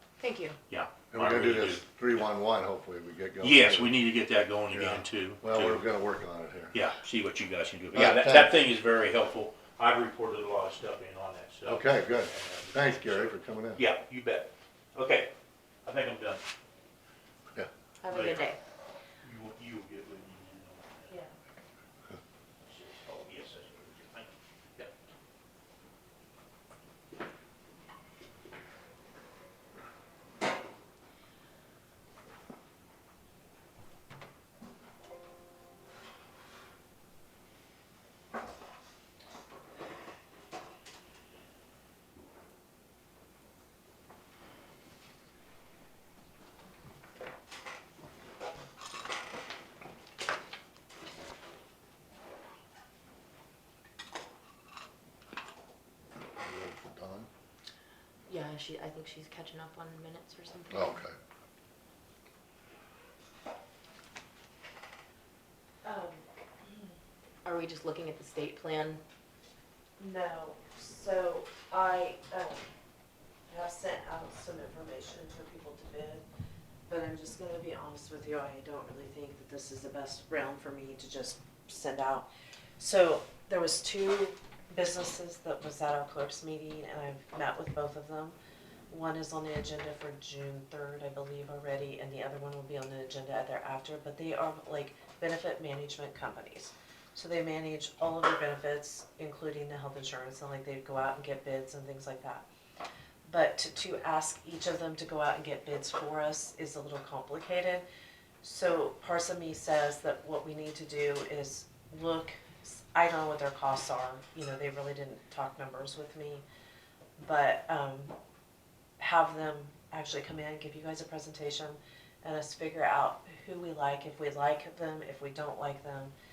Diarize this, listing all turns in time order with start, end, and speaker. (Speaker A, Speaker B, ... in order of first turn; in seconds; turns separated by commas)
Speaker A: 0.2-0.6, Speaker B: 0.7-1.8, Speaker C: 1.1-4.0, Speaker B: 3.4-5.9, Speaker C: 4.7-6.8, Speaker B: 6.7-15.3, Speaker C: 7.9-8.6, Speaker C: 11.7-13.8, Speaker B: 15.8-16.4, Speaker A: 18.0-18.6, Speaker B: 18.1-18.5, Speaker B: 19.2-21.2, Speaker B: 22.6-24.9, Speaker C: 56.4-57.3, Speaker A: 58.3-61.0, Speaker C: 60.7-61.1, Speaker D: 65.8-67.0, Speaker A: 67.4-69.0, Speaker D: 70.0-72.7, Speaker D: 73.5-76.2, Speaker D: 76.9-82.3, Speaker D: 82.8-88.4, Speaker D: 88.9-102.5, Speaker D: 103.3-107.8, Speaker D: 108.4-116.4, Speaker D: 117.2-118.2, Speaker D: 119.0-126.1